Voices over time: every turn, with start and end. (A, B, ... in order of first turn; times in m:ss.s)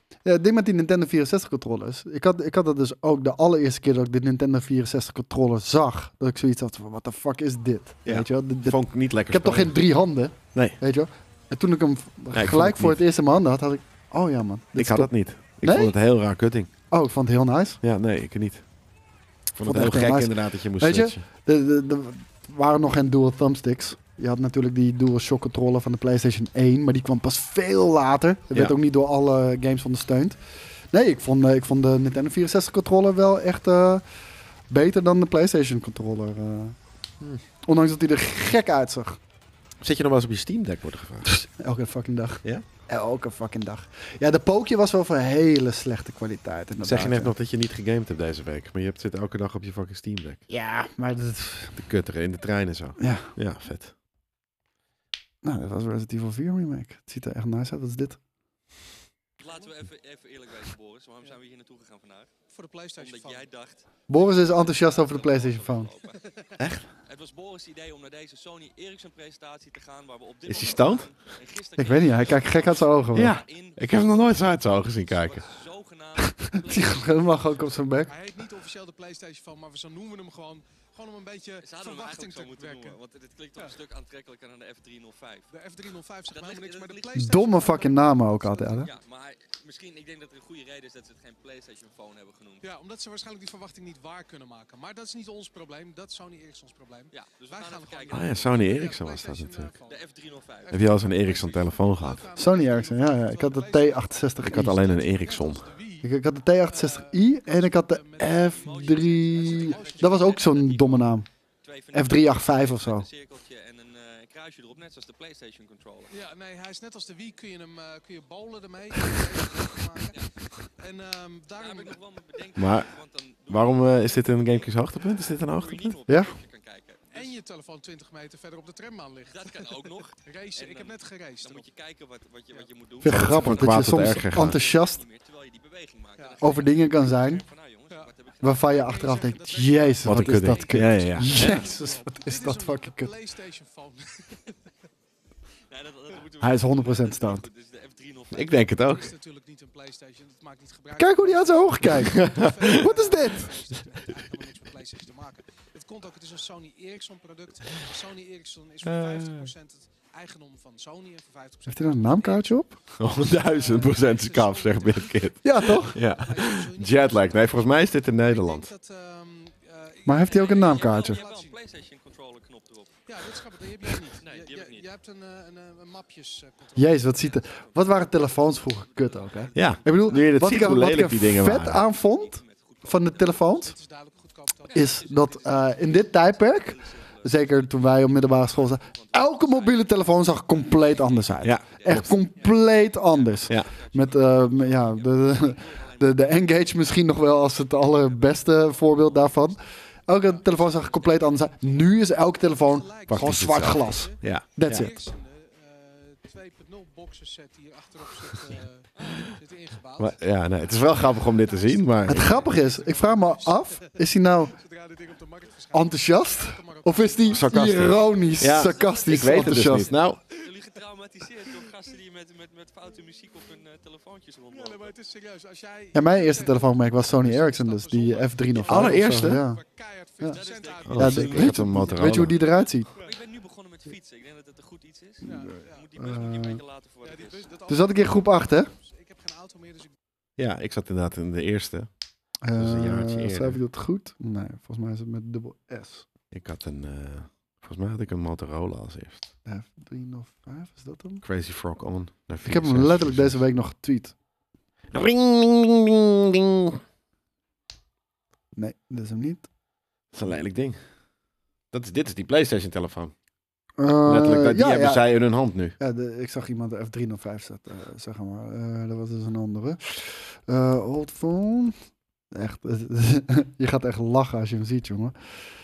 0:00.2-0:16.0 A
0:08.0-0:09.8 B
0:12.3-0:13.0 B
0:14.8-0:16.7 B
0:16.9-0:17.8 A
0:17.8-0:18.6 B
0:19.5-0:21.2 B
0:19.6-0:30.4 A
0:30.9-0:34.0 A
0:34.7-0:36.8 A
0:37.6-0:39.2 A
0:39.8-0:41.3 B
0:41.3-0:47.3 A
0:46.8-0:50.4 B
0:50.5-0:51.8 A
0:51.8-0:53.9 B
0:53.0-0:53.3 A
0:55.4-0:58.2 A
0:59.4-1:02.3 C
0:59.4-0:59.8 D
1:02.5-1:03.5 D
1:03.0-1:06.2 C
1:04.1-1:05.9 A
1:07.0-1:17.7 C
1:10.5-1:11.1 B
1:11.8-1:13.3 A
1:13.1-1:15.4 B
1:16.3-1:18.1 A
1:18.1-1:23.0 D
1:21.6-1:25.5 C
1:25.5-1:28.9 D
1:26.3-1:27.3 C
1:27.2-1:28.9 A
1:28.8-1:32.6 C
1:32.6-1:46.1 D
1:37.1-1:38.8 C
1:38.1-1:39.7 B
1:39.9-1:40.7 C
1:40.7-1:42.3 B
1:42.4-1:44.8 A
1:44.4-1:45.7 B
1:46.0-1:51.3 A
1:46.6-1:51.0 D
1:48.5-1:51.1 C
1:51.6-1:56.1 C
1:51.9-1:53.1 A
1:56.1-2:02.0 D
2:01.6-2:07.4 C
2:02.6-2:02.9 B
2:03.5-2:06.0 B
2:06.1-2:06.4 A
2:07.1-2:11.7 D
2:09.3-2:18.8 C
2:13.0-2:15.0 A
2:13.1-2:14.6 B
2:16.2-2:16.6 D
2:16.4-2:17.4 A
2:17.9-2:18.2 D
2:18.4-2:23.1 A
2:18.7-2:24.5 D
2:20.0-2:21.6 B
2:25.7-2:28.8 C
2:26.4-2:27.5 A
2:28.3-2:29.1 B
2:28.8-2:51.6 D
2:31.0-2:33.6 A
2:32.0-2:32.9 B
2:38.8-2:39.5 B
2:41.7-2:42.8 A
2:43.0-2:48.7 B
2:45.4-2:46.0 A
2:50.0-2:51.2 A
2:50.2-2:53.0 C
2:53.1-2:57.4 D
2:53.9-2:54.9 C
2:56.8-3:03.7 A
2:57.1-3:01.0 C
2:59.5-3:01.8 B
3:01.6-3:03.6 C
3:03.5-3:06.1 D
3:04.7-3:19.6 C
3:04.7-3:25.0 A
3:11.4-3:12.1 B
3:20.2-3:38.3 D
3:23.1-3:24.9 B
3:30.0-3:32.4 B
3:32.1-3:34.6 A
3:35.7-3:40.0 A
3:37.3-3:40.2 B
3:38.4-3:44.9 C
3:44.5-3:52.2 D
3:45.9-3:49.6 A
3:48.7-3:49.4 B
3:50.3-3:51.9 C
3:50.8-3:52.4 B
3:50.9-3:52.9 A
3:53.0-3:57.5 C
3:55.2-3:56.4 D
3:56.0-3:56.6 A
3:57.0-3:59.9 D
3:57.7-3:58.7 A
4:00.4-4:01.9 B
4:02.4-4:06.1 A
4:02.5-4:03.6 B
4:06.3-4:09.3 B
4:09.4-4:11.2 A
4:11.2-4:13.4 B
4:12.4-4:14.1 A
4:14.9-4:16.8 B
4:18.6-4:19.5 A
4:20.1-4:20.8 B
4:21.7-4:23.1 B
4:23.8-4:25.1 A
4:24.1-4:25.8 B
4:25.8-4:31.8 A
4:32.3-4:35.1 A